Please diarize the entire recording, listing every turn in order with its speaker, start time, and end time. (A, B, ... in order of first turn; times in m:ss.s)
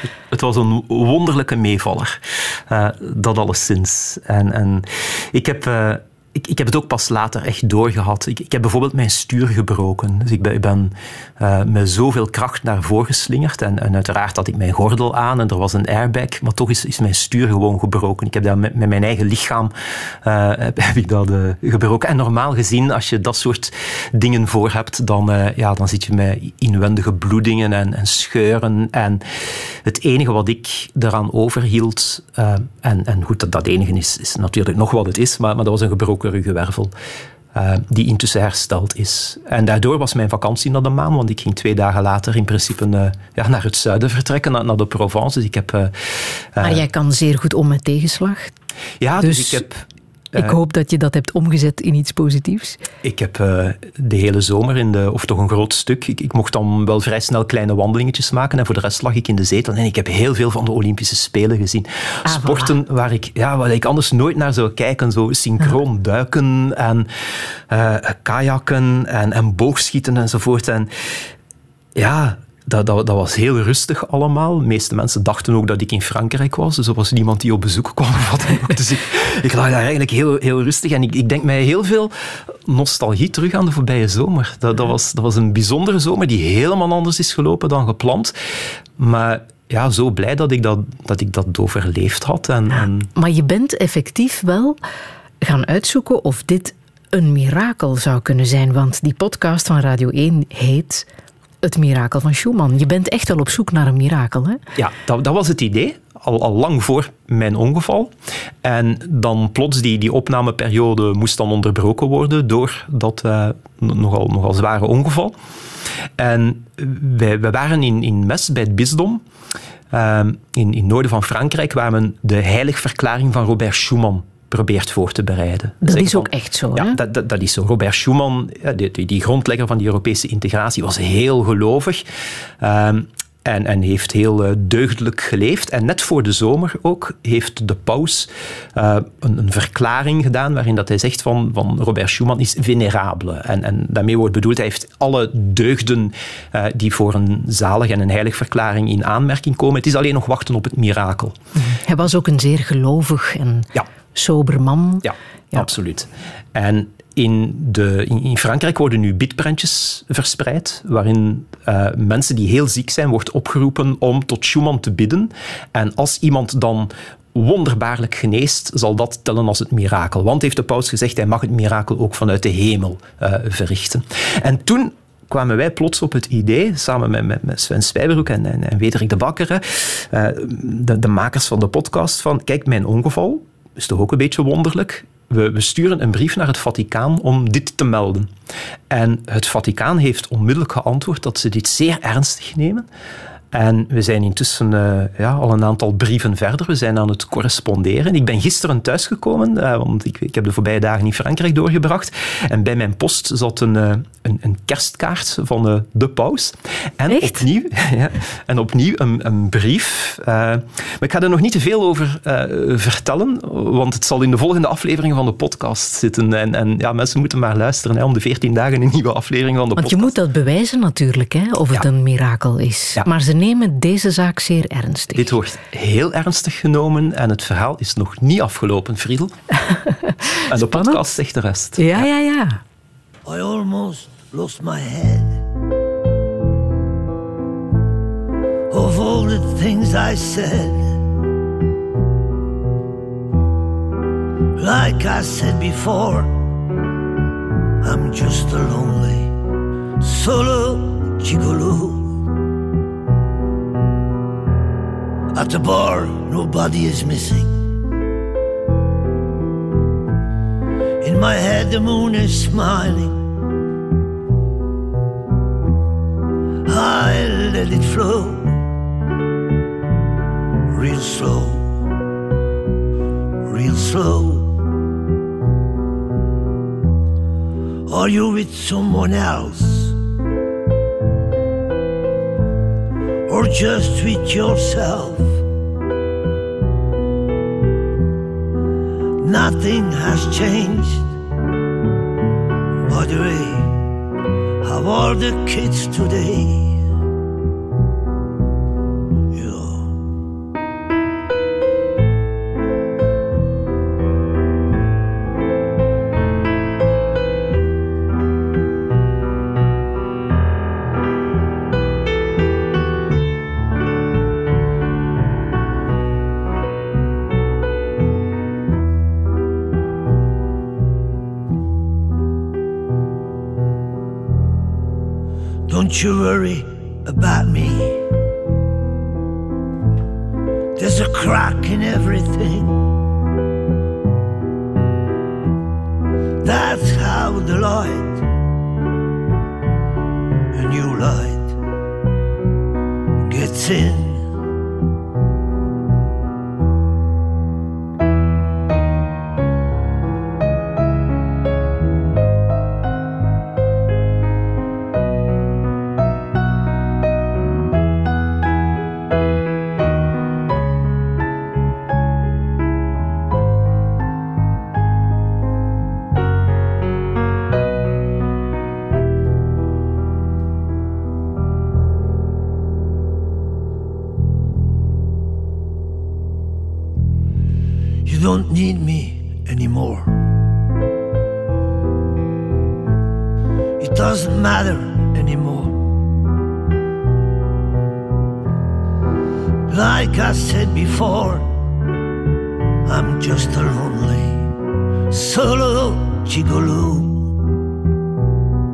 0:00.3-0:36.9 A
0:37.5-0:46.8 A
0:46.6-0:48.5 B
0:49.0-0:50.6 A
0:49.2-0:49.6 B
0:50.4-0:52.8 B
0:53.0-1:07.1 A
1:02.3-1:02.8 B
1:07.7-1:10.9 A
1:12.0-1:28.4 A
1:29.0-1:33.1 A
1:32.7-1:34.8 B
1:35.4-1:41.1 B
1:41.6-1:44.6 B
1:44.8-1:55.4 A
1:56.2-1:59.2 A
1:59.9-2:12.0 A
2:05.8-2:07.0 B
2:12.6-2:31.4 A
2:31.6-2:35.7 B
2:35.0-3:08.3 A
3:08.9-3:12.9 A
3:13.5-3:40.1 A
3:27.1-3:27.4 B
3:39.8-3:45.4 B
3:45.2-3:49.4 A
3:49.6-3:51.0 B
3:50.5-3:52.1 A
3:51.8-3:52.6 B
3:53.2-3:55.4 C
3:58.7-4:01.0 C
4:04.6-4:06.5 C
4:07.8-4:09.3 C
4:10.0-4:12.2 C
4:15.3-4:17.6 C
4:21.0-4:23.2 C
4:26.7-4:28.6 C
4:30.7-4:31.7 C
4:33.4-4:34.6 C
4:37.9-4:40.0 C
4:43.3-4:45.4 C
4:49.2-4:51.1 C
4:52.8-4:53.8 C
4:54.6-4:56.8 C
4:59.3-4:59.9 C
5:25.7-5:28.0 C
5:30.8-5:32.8 C
5:36.4-5:38.2 C
5:40.5-5:41.6 C
5:43.2-5:44.3 C
6:18.0-6:20.1 C
6:23.8-6:25.8 C
6:29.7-6:31.5 C
6:32.9-6:34.5 C
6:35.1-6:37.3 C